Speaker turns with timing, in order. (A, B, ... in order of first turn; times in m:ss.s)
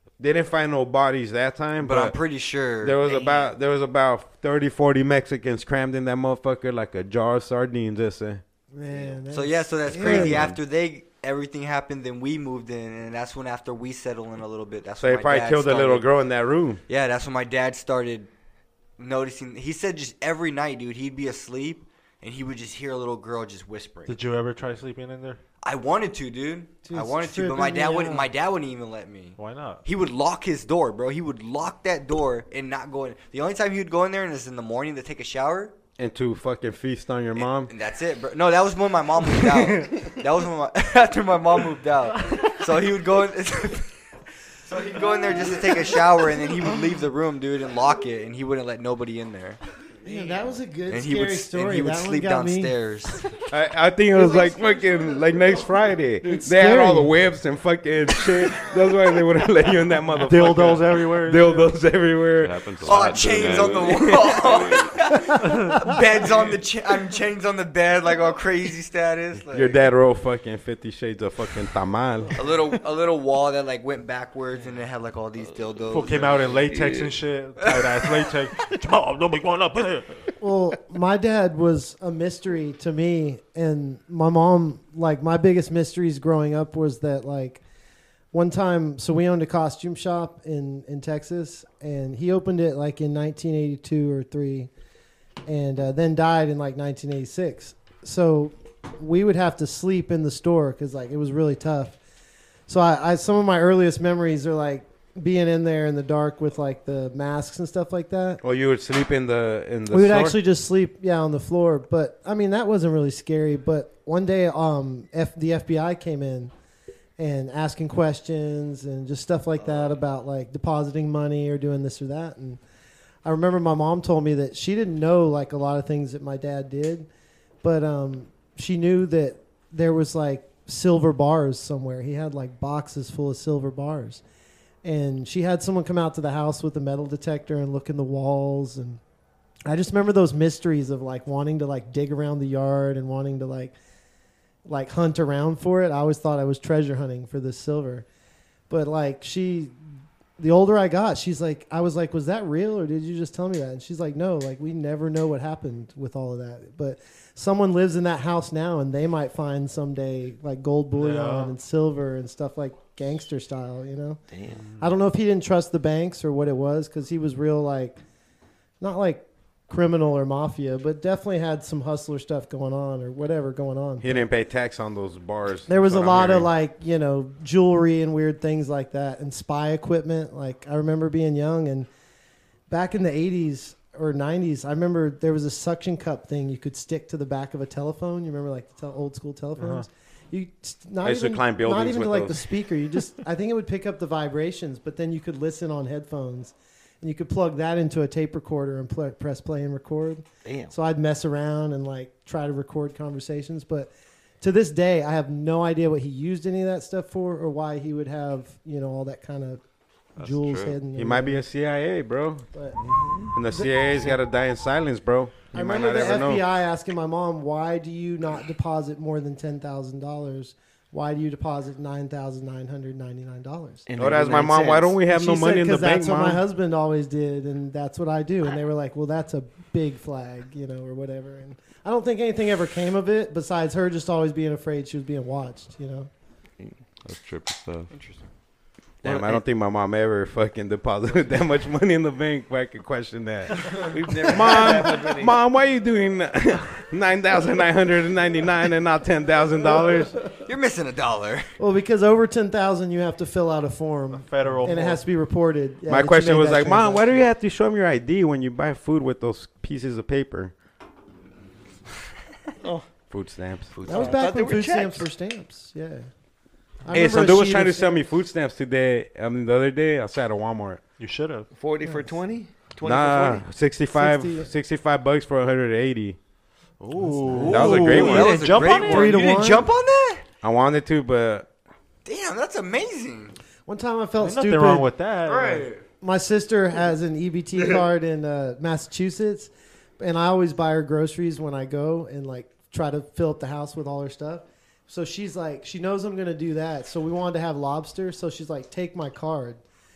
0:00.2-0:02.2 A
0:01.8-0:03.5 B
0:02.8-0:08.4 A
0:08.7-0:10.5 C
0:09.3-0:16.1 B
0:10.0-0:10.6 D
0:15.0-0:16.8 A
0:16.9-0:18.3 B
0:19.0-0:24.2 B
0:24.1-0:25.4 E
0:25.6-0:35.7 B
0:26.8-0:28.3 C
0:29.4-0:29.8 E
0:36.0-0:37.7 A
0:37.4-0:43.9 B
0:39.4-0:40.1 E
0:44.6-0:49.6 B
0:50.0-0:52.8 C
0:50.9-0:53.3 B
0:53.5-1:03.4 A
0:56.2-0:57.1 C
1:00.2-1:01.7 E
1:02.4-1:04.9 D
1:02.8-1:09.8 B
1:09.5-1:12.4 A
1:12.3-1:16.4 B
1:15.9-1:20.4 E
1:16.0-1:17.1 F
1:17.6-1:18.3 B
1:20.4-1:27.6 C
1:28.3-1:34.7 C
1:35.5-1:42.0 C
1:42.7-1:48.4 C
1:48.4-1:50.4 A
1:49.9-1:56.5 C
1:57.2-2:02.6 C
2:03.2-2:07.1 C
2:07.6-2:14.2 C
2:14.8-2:19.0 C
2:19.7-2:23.8 C
2:24.7-2:28.1 C
2:28.7-2:29.8 C
2:30.4-2:44.2 C
2:40.9-2:41.6 E
2:44.3-2:44.6 F
2:44.6-2:44.9 E
2:44.8-2:48.0 C
2:48.8-2:54.3 C
2:54.0-2:56.5 A
2:55.7-3:01.9 C
3:02.7-3:29.6 C
3:09.6-3:09.9 E
3:11.0-3:12.5 A
3:20.4-3:20.7 F
3:30.2-3:30.8 D
3:30.2-3:31.4 C
3:31.0-3:32.5 A
3:32.5-3:34.1 C
3:33.3-3:36.5 A
3:35.5-3:43.8 C
3:43.9-3:45.0 F
3:44.0-3:46.4 A
3:45.1-3:56.1 C
3:57.0-3:57.9 D
3:57.9-3:58.2 B
3:59.0-4:10.2 A
3:59.0-3:59.4 F
4:03.9-4:05.4 F
4:10.4-4:11.6 B
4:11.6-4:17.3 C
4:14.1-4:15.0 E
4:15.9-4:20.5 A
4:22.6-4:22.9 F
4:23.1-4:23.7 A
4:23.7-4:24.2 B
4:23.9-4:26.1 C
4:23.9-4:25.1 F
4:26.8-4:28.0 C
4:26.9-4:30.8 A
4:31.0-4:31.5 E
4:31.5-4:33.4 F
4:32.8-4:36.2 A
4:33.9-4:34.5 C
4:36.8-4:39.3 E
4:37.0-4:39.7 C
4:37.4-4:40.2 B
4:37.5-4:38.4 A
4:40.4-4:41.5 A
4:42.0-4:43.4 B
4:43.7-4:44.9 C
4:44.2-4:45.8 E
4:45.2-4:45.8 B
4:46.0-4:59.6 C